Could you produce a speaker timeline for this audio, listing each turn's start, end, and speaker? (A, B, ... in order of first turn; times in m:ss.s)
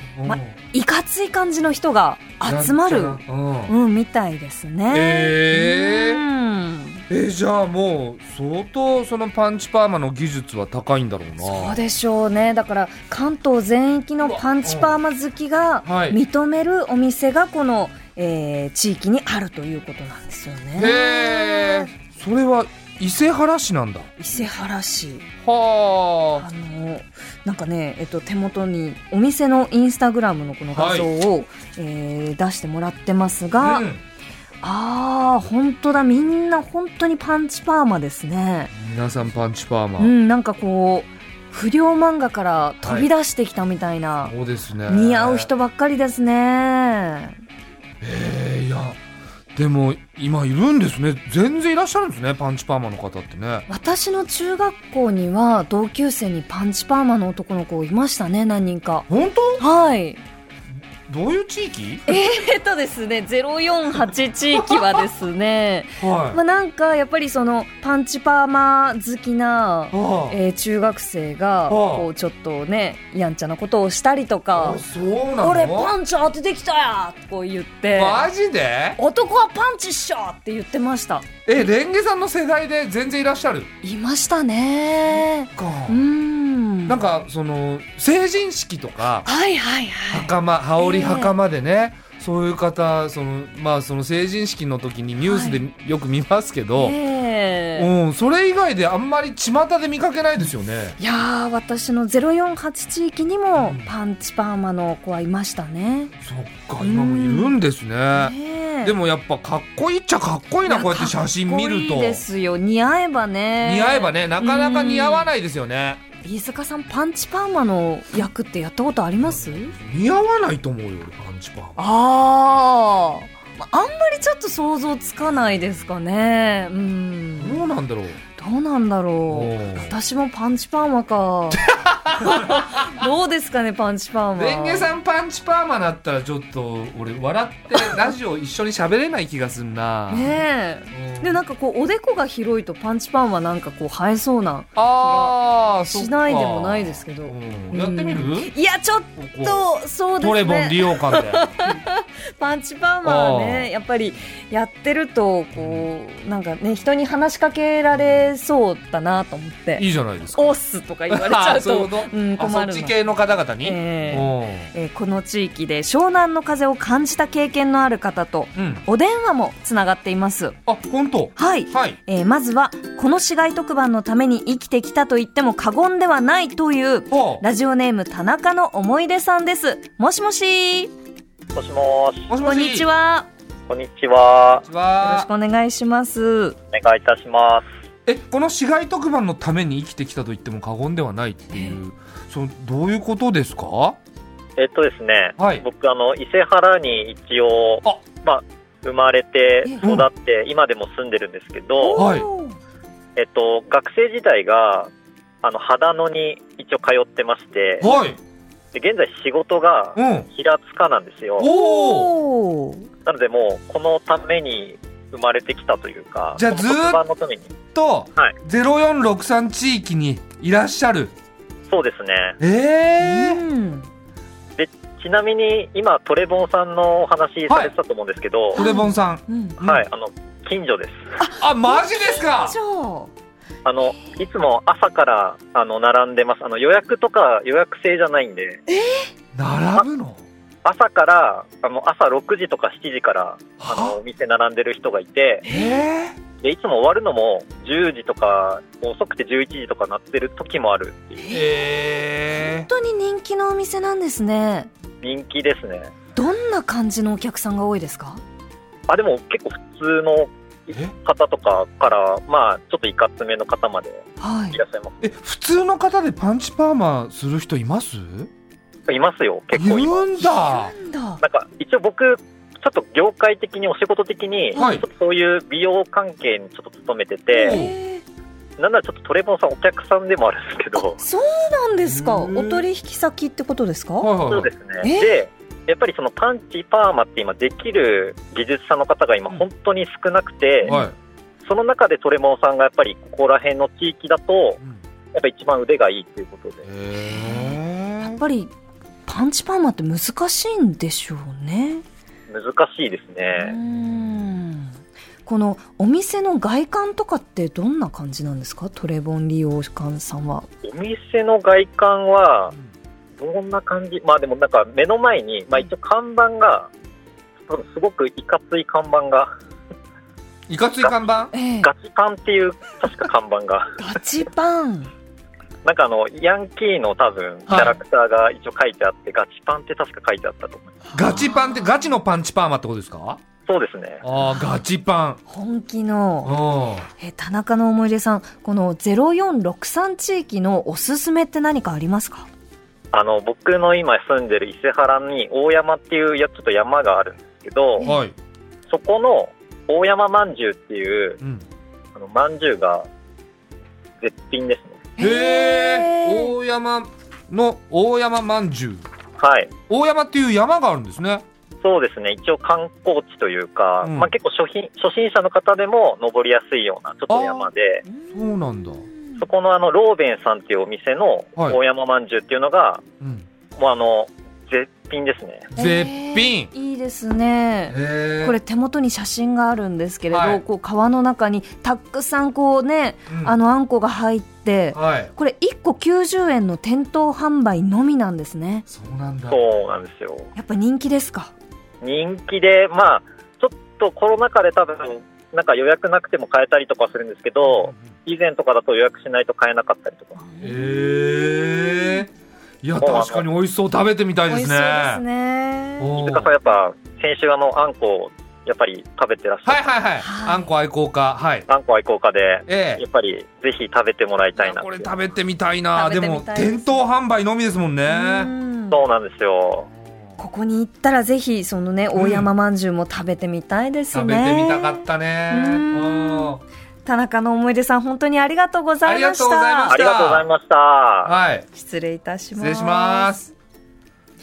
0:00.1-0:00.6 A
0:00.2-0:07.0 B
0:02.4-0:03.7 A
0:04.9-0:06.2 A
0:07.1-0:11.8 A
0:11.4-0:21.9 B
0:14.2-0:15.0 A
0:15.8-0:16.2 A
0:20.8-0:24.1 A
0:24.2-0:25.3 B
0:25.4-0:26.4 A
0:26.4-0:33.8 B
0:30.7-0:31.1 A
0:33.6-0:34.0 A
0:34.6-0:38.7 B
0:38.7-0:40.1 A
0:40.0-0:44.4 B
0:42.8-0:43.1 A
0:44.2-0:45.5 A
0:44.9-0:47.4 B
0:48.0-0:49.0 A
0:49.6-0:53.7 A
0:53.7-1:00.2 B
0:59.1-0:59.6 A
1:01.1-1:02.1 A
1:02.1-1:14.8 B
1:04.5-1:05.0 A
1:06.0-1:06.4 A
1:09.9-1:10.4 A
1:11.7-1:12.1 A
1:14.6-1:15.9 A
1:15.4-1:18.3 B
1:17.9-1:19.0 A
1:19.0-1:21.3 B
1:21.5-1:23.7 A
1:23.8-1:27.0 B
1:25.6-1:26.0 A
1:26.9-1:29.3 A
1:29.2-1:31.4 B
1:30.1-1:37.0 A
1:35.3-1:35.6 B
1:36.8-1:37.9 B
1:37.8-1:41.0 A
1:41.0-1:46.1 B
1:43.6-1:43.9 A
1:46.2-1:52.2 A
1:46.8-1:47.6 B
1:48.1-1:49.0 B
1:50.7-1:55.3 B
1:53.6-1:56.0 A
1:56.2-1:59.8 B
1:59.3-2:01.8 A
2:01.8-2:07.7 B
2:07.4-2:08.2 A
2:08.4-2:11.7 B
2:09.3-2:09.9 A
2:11.5-2:13.0 A
2:12.2-2:14.9 B
2:14.4-2:20.4 A
2:20.1-2:43.0 B
2:20.9-2:21.4 A
2:24.8-2:28.5 A
2:29.2-2:29.6 A
2:30.2-2:31.5 A
2:33.0-2:33.7 A
2:35.6-2:35.8 A
2:39.8-2:40.5 A
2:41.1-2:44.7 A
2:43.6-2:50.6 B
2:48.6-2:48.8 A
2:50.7-2:52.0 A
2:51.4-3:00.9 B
2:57.1-2:57.4 A
3:01.6-3:02.3 C
3:02.3-3:02.9 A
3:02.4-3:03.3 B
3:03.7-3:04.7 C
3:04.6-3:05.3 A
3:05.0-3:06.6 B
3:06.7-3:07.7 C
3:08.1-3:14.0 A
3:11.5-3:11.8 B
3:14.6-3:22.0 C
3:15.4-3:15.6 A
3:19.8-3:20.1 A
3:21.8-3:22.6 B
3:22.0-3:22.3 A
3:23.2-3:24.9 C
3:25.4-3:27.9 C
3:27.8-3:28.2 A
3:28.7-3:31.5 C
3:30.0-3:30.3 A
3:31.4-3:32.1 A
3:31.5-3:32.9 B
3:33.1-3:37.5 C
3:36.4-3:37.0 A
3:37.7-3:41.1 A
3:41.7-3:42.4 C
3:42.4-3:43.4 A
3:43.0-3:43.9 B
3:44.6-3:48.6 C
3:48.6-3:49.8 A
3:48.6-3:49.6 B
3:49.6-3:51.0 C
3:51.2-3:53.1 B
3:51.4-3:52.6 A
3:53.6-3:58.6 C
3:58.7-3:59.1 B
3:59.3-4:00.2 A
4:00.6-4:05.4 C
4:03.6-4:04.0 A
4:05.4-4:05.8 B
4:05.5-4:06.2 A
4:06.4-4:11.2 C
4:11.2-4:11.7 B
4:11.3-4:12.7 A
4:12.6-4:14.7 B
4:15.0-4:15.9 C
4:16.2-4:18.2 B
4:18.9-4:25.0 C
4:20.7-4:20.9 A
4:24.2-4:24.6 B
4:25.0-4:28.3 A
4:28.9-4:30.1 C
4:29.5-4:30.7 A
4:30.2-4:31.2 B
4:31.2-4:37.6 C
4:34.6-4:34.8 B
4:34.6-4:34.8 A
4:37.3-4:38.0 B
4:37.4-4:37.7 A
4:38.6-4:41.0 C
4:40.8-4:44.1 B
4:41.8-4:42.6 A
4:44.0-4:44.5 A
4:44.3-4:50.7 C
4:44.8-4:45.2 B
4:50.6-4:50.9 A
4:51.4-4:54.6 C
4:55.1-4:56.6 C
4:56.6-4:58.2 A
4:57.0-4:58.5 B
4:59.1-5:01.8 B
5:02.3-5:03.6 C
5:03.3-5:10.5 B
5:03.7-5:04.0 A
5:10.6-5:12.6 C
5:13.2-5:16.7 C
5:17.5-5:19.3 C
5:20.5-5:21.3 A
5:21.3-5:21.7 B
5:21.6-5:23.7 C
5:23.8-5:24.9 B
5:25.6-5:30.8 C
5:27.5-5:27.8 A
5:30.9-5:31.7 B
5:31.0-5:33.2 A
5:33.5-5:34.0 C
5:34.0-5:35.2 A
5:34.2-5:34.5 B
5:35.3-5:36.4 B
5:36.2-5:36.9 A
5:37.0-5:42.3 B
5:42.9-5:47.8 C
5:47.8-5:48.2 A
5:48.7-5:51.2 C
5:52.0-5:52.9 C
5:54.0-5:54.9 C
5:55.0-5:56.3 B
5:55.0-5:58.8 A
5:59.2-5:59.5 C
5:59.7-6:01.2 A
6:01.6-6:07.8 C
6:03.8-6:04.1 A
6:07.1-6:07.5 A
6:07.9-6:08.2 B
6:08.1-6:08.8 A
6:09.2-6:12.8 C
6:13.6-6:15.5 C
6:15.5-6:16.5 A
6:15.6-6:28.7 B
6:17.7-6:18.4 A
6:20.1-6:20.4 A
6:23.1-6:23.4 A
6:24.7-6:25.1 A
6:28.7-6:29.4 A
6:29.3-6:30.3 C
6:30.4-6:31.3 B
6:31.8-6:40.2 C
6:37.5-6:37.8 A
6:40.2-6:42.1 B
6:40.4-6:42.1 A
6:42.6-6:45.0 A
6:42.8-6:43.2 C
6:44.3-6:45.9 B
6:45.8-6:46.3 A
6:46.0-6:49.6 C
6:49.4-6:51.5 A
6:50.0-6:50.5 B
6:51.5-6:54.9 C
6:52.5-6:52.8 A
6:54.4-6:58.3 A
6:55.7-6:56.8 B
6:57.9-6:58.8 B
6:58.7-6:59.7 C
6:59.7-7:00.1 A
7:00.2-7:06.3 B
7:02.0-7:02.3 A
7:03.9-7:06.4 A
7:06.8-7:09.8 B
7:08.8-7:10.3 A
7:09.7-7:11.1 C
7:11.0-7:11.5 A
7:11.5-7:13.1 B
7:12.4-7:13.3 A